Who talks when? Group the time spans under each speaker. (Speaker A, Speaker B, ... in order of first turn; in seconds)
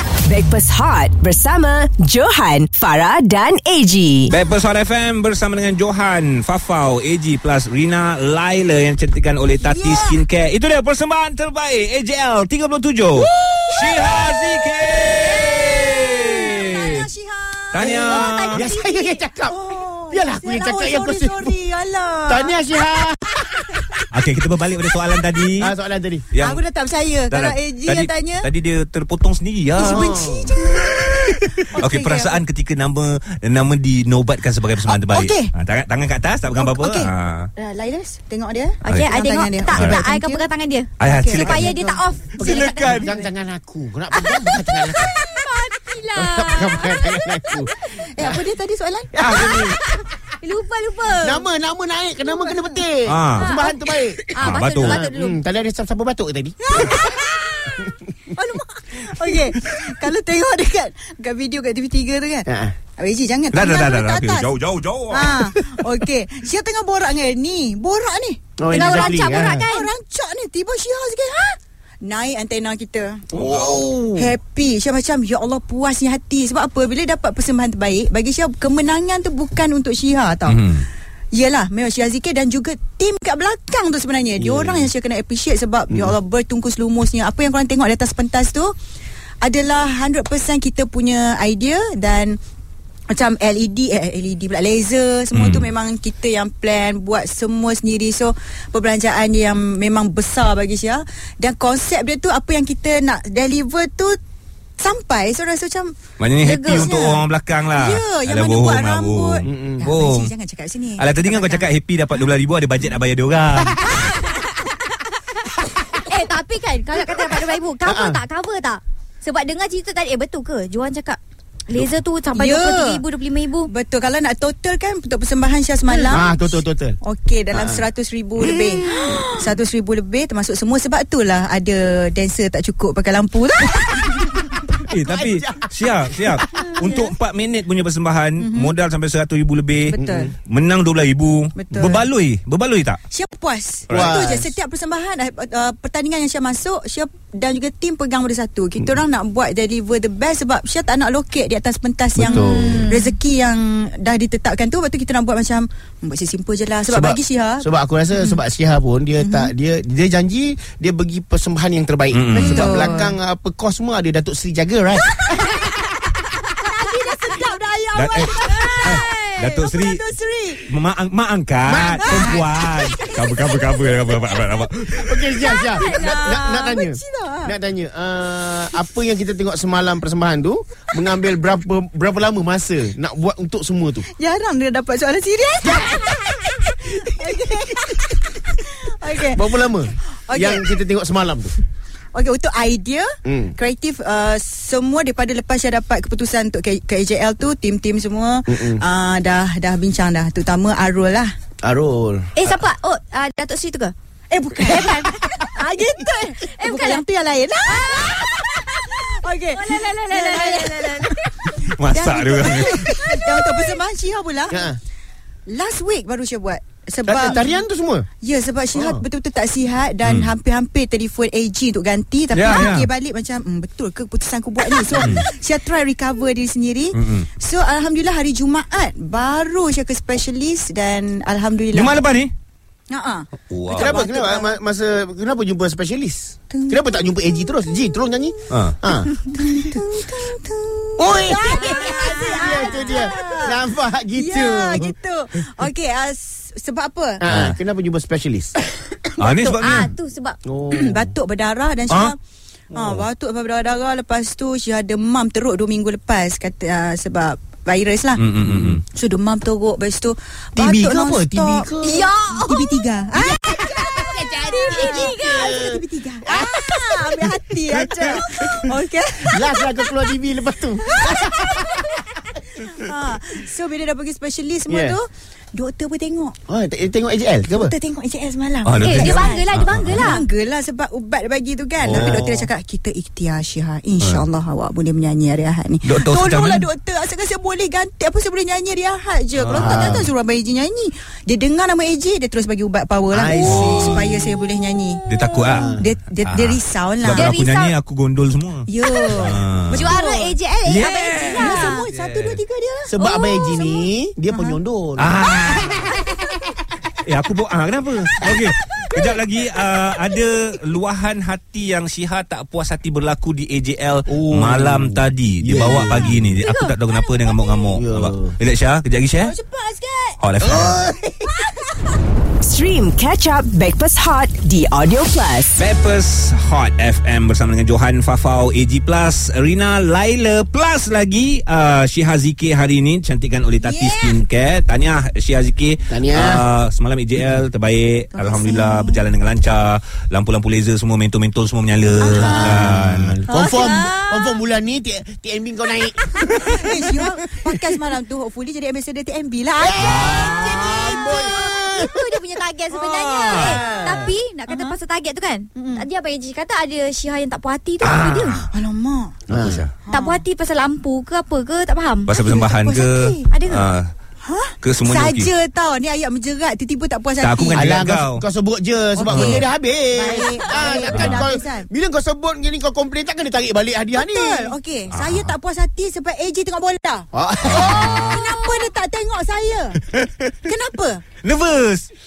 Speaker A: 0.2-4.3, 322.4-325.6
Speaker B: 4.3-17.0, 17.7-18.7, 24.1-25.7, 26.3-26.6, 27.3-30.2, 30.9-37.5, 38.8-39.1, 41.0-43.1, 53.0-53.5, 54.4-55.0, 63.5-65.5, 80.5-80.8, 95.3-95.7, 106.2-110.3, 111.0-114.1, 134.8-143.0, 143.9-144.1, 152.2-152.5, 162.1-162.8, 167.9-170.0, 170.7-175.1, 211.5-212.8, 220.0-220.3, 222.3-222.9, 224.9-225.2, 226.9-227.3, 231.7-232.3, 233.5-234.0, 238.5-238.8, 247.3-247.6, 249.2-249.9, 258.2-258.8, 278.6-280.1, 285.8-286.6, 293.4-294.0, 295.1-300.0, 300.6-302.4, 305.0-305.9, 307.0-319.3, 320.2-320.8, 325.6-343.1, 349.8-351.0, 352.7-353.6, 357.8-358.5, 359.3-359.7, 362.1-363.9, 364.6-365.3, 367.2-368.2, 369.1-369.4, 370.9-371.2, 374.9-375.3, 377.5-378.2, 381.2-381.9
Speaker C: 9.6-10.2, 13.2-22.6, 26.4-28.5, 29.7-32.4, 34.8-35.5, 36.5-40.5, 41.1-41.6, 47.8-49.2, 56.6-64.5, 65.1-73.2, 74.1-80.7, 81.3-88.7, 89.4-92.4, 93.1-104.2, 104.8-111.7, 122.3-123.0, 123.7-134.6, 136.8-137.1, 138.4-138.7, 139.9-140.3, 141.5-142.0, 143.1-158.4, 159.2-159.5, 162.3-163.1, 165.1-165.8, 166.6-170.7, 171.9-174.4, 175.2-177.5, 184.1-189.6, 190.2-190.8, 192.1-201.3, 204.3-214.6, 215.5-217.6, 218.2-232.0, 232.9-234.6, 236.5-236.8, 239.2-243.6, 244.2-247.2, 250.7-252.2, 252.7-258.2, 258.9-263.9, 264.5-269.9, 271.0-276.4, 277.5-295.1, 295.6-297.4, 298.7-303.7, 304.3-304.6, 319.2-320.2, 321.2-322.0, 333.6-334.2, 338.1-339.0, 342.0-342.5, 346.3-350.4, 354.5-354.8, 355.5-355.9, 358.5-359.2, 359.9-360.2, 362.1-363.3, 364.2-367.7, 368.9-371.7, 373.9-379.8, 380.4-381.0
Speaker D: 17.8-19.6, 20.1-21.5, 22.3-24.0, 25.6-26.3, 29.8-30.5, 42.4-45.1, 46.1-48.4, 49.1-49.8, 51.2-57.0, 62.5-62.8, 68.6-69.7, 73.3-74.3, 84.4-84.9, 85.9-86.1, 109.4-109.9, 117.8-118.2, 126.1-127.0, 127.5-127.8, 128.4-129.2, 134.9-136.7, 139.9-140.3, 143.9-144.5, 152.2-152.9, 156.9-165.2, 171.7-172.5, 174.9-184.1, 185.6-186.1, 189.3-191.6, 193.2-193.5, 198.5-198.8, 201.6-202.3, 214.5-214.8, 217.1-218.1, 218.7-219.0, 233.8-239.3, 241.0-244.9, 247.2-248.6, 250.4-251.0, 258.4-258.8, 260.6-262.1, 263.1-268.3, 269.2-271.8, 274.7-275.0, 276.5-277.7, 281.9-282.5, 289.4-290.1, 293.1-294.3, 295.5-295.9, 302.9-305.2, 314.1-316.2, 317.7-318.3, 320.4-321.3, 335.9-336.4, 342.1-346.6, 349.6-352.1, 353.3-354.1, 359.3-359.7, 367.5-374.5, 377.1-378.2
Speaker E: 38.8-43.2, 44.2-47.5, 49.4-51.4, 53.4-55.4, 68.7-69.9, 116.0-123.7, 128.9-129.4, 152.5-153.1, 168.3-169.3, 202.3-203.9, 204.6-205.7, 206.4-207.0, 207.7-208.7, 209.5-211.5, 212.8-213.7, 241.5-243.1, 249.2-250.4, 261.8-262.9, 263.5-265.5, 278.8-280.2, 297.1-297.8, 299.7-301.9, 303.0-303.7, 315.8-317.8, 343.3-344.4, 350.3-358.4, 359.9-362.1, 363.3-363.6